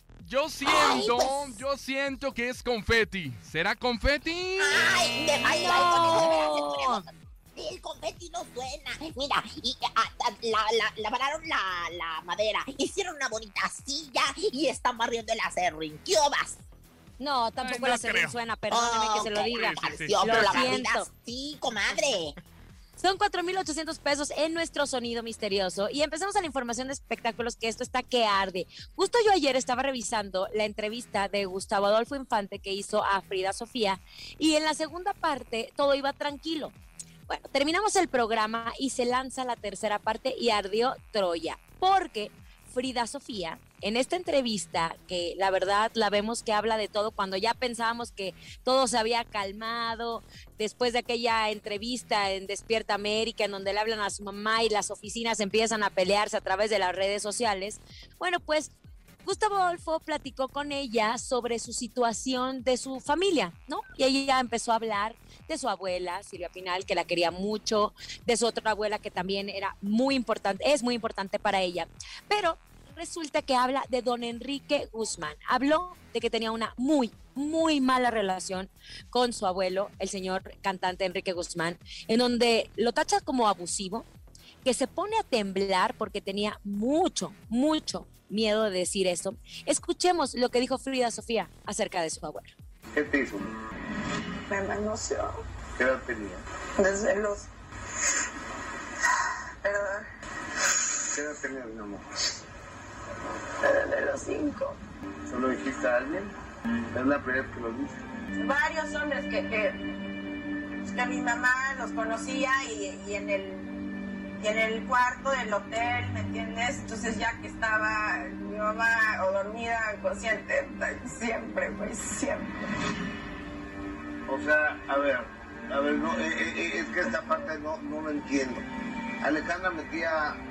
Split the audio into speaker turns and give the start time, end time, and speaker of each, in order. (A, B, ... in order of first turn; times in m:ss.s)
0:00.2-0:05.0 A
0:00.6-0:01.5 B
0:04.6-0:16.6 B
0:05.5-0:07.0 C
0:17.2-0:21.1 C
0:17.6-0:18.4 A
0:18.7-0:22.3 B
0:19.5-0:20.7 A
0:23.0-0:36.7 C
0:37.3-0:58.7 C
0:59.2-1:24.1 C
1:24.6-1:32.5 C
1:32.9-1:33.5 D
1:34.5-1:35.4 E
1:35.8-1:36.4 D
1:36.8-1:37.5 E
1:39.6-1:40.0 E
1:41.1-1:42.0 D
1:43.6-1:44.8 E
1:45.3-1:46.3 D
1:46.9-1:48.0 D
1:48.4-1:49.8 E
1:50.8-1:53.8 E
1:54.4-2:02.6 E
2:04.3-2:08.6 D
2:09.2-2:10.4 D